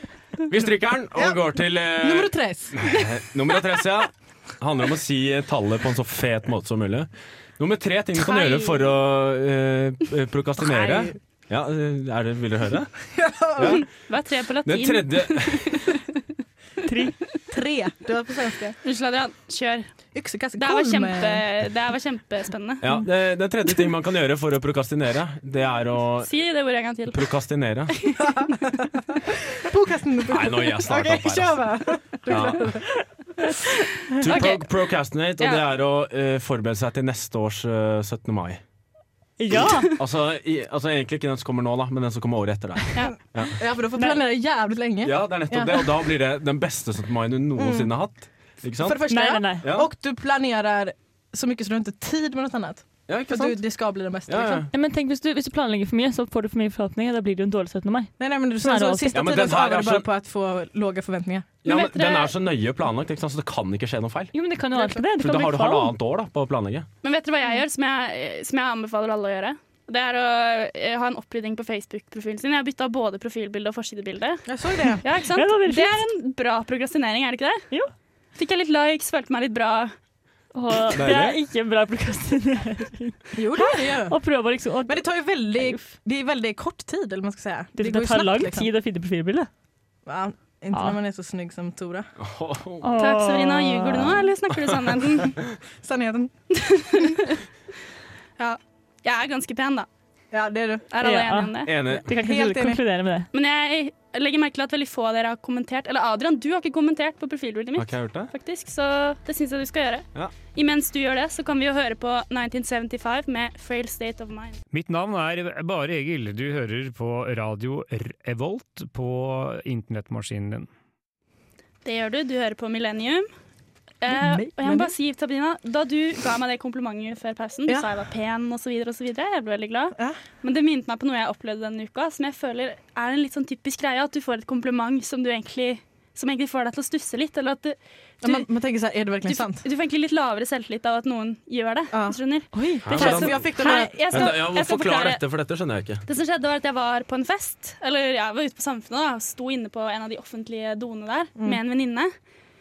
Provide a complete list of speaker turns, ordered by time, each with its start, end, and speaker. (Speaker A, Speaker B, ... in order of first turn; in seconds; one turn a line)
Speaker A: 0.5-12.9
Speaker B: 1.1-3.0
Speaker C: 8.2-8.7
Speaker B: 10.6-11.1
Speaker B: 13.1-13.8
Speaker A: 13.5-13.9
Speaker C: 13.7-16.0
Speaker A: 14.6-15.8
Speaker D: 16.8-17.2
Speaker B: 17.5-18.8
Speaker C: 18.8-19.9
Speaker B: 20.1-21.4
Speaker C: 20.6-22.9
Speaker A: 22.8-26.3
Speaker C: 26.2-27.2
Speaker A: 27.1-28.0
Speaker B: 28.2-32.9
Speaker A: 30.3-32.9
Speaker A: 34.2-38.6
Speaker C: 34.2-34.6
Speaker C: 35.4-35.7
Speaker D: 39.4-39.9
Speaker A: 40.0-43.6
Speaker B: 43.5-45.9
Speaker D: 44.0-44.2
Speaker A: 45.0-49.0
Speaker B: 47.5-47.9
Speaker B: 48.8-54.7
Speaker D: 49.1-49.6
Speaker A: 49.6-49.9
Speaker A: 53.1-53.6
Speaker A: 54.3-54.7
Speaker D: 54.7-59.3
Speaker B: 58.2-61.5
Speaker A: 59.1-60.1
Speaker A: 61.6-64.3
Speaker C: 61.6-62.3
Speaker D: 64.3-65.9
Speaker B: 64.7-65.0
Speaker A: 65.2-66.9
Speaker C: 67.0-74.5
Speaker B: 74.5-75.0
Speaker C: 75.0-77.7
Speaker D: 75.3-76.0
Speaker C: 78.3-79.9
Speaker D: 80.5-85.1
Speaker A: 80.9-81.4
Speaker B: 83.3-84.2
Speaker B: 84.8-88.7
Speaker D: 87.8-89.5
Speaker B: 90.0-92.1
Speaker A: 92.2-92.9
Speaker D: 92.8-94.2
Speaker C: 93.0-95.4
Speaker B: 95.8-96.3
Speaker C: 96.5-97.4
Speaker C: 98.4-99.9
Speaker B: 100.3-100.8
Speaker C: 100.9-101.8
Speaker D: 101.0-103.3
Speaker A: 101.6-102.1
Speaker B: 102.1-102.8
Speaker C: 103.3-114.6
Speaker A: 107.8-108.3
Speaker E: 114.7-120.7
Speaker C: 121.8-123.3
Speaker C: 124.0-138.5
Speaker B: 124.1-124.9
Speaker B: 138.2-139.6
Speaker C: 139.2-145.2
Speaker B: 141.9-142.2
Speaker D: 142.5-143.3
Speaker A: 142.8-143.4
Speaker B: 142.8-144.4
Speaker A: 144.1-146.0
Speaker C: 146.1-152.1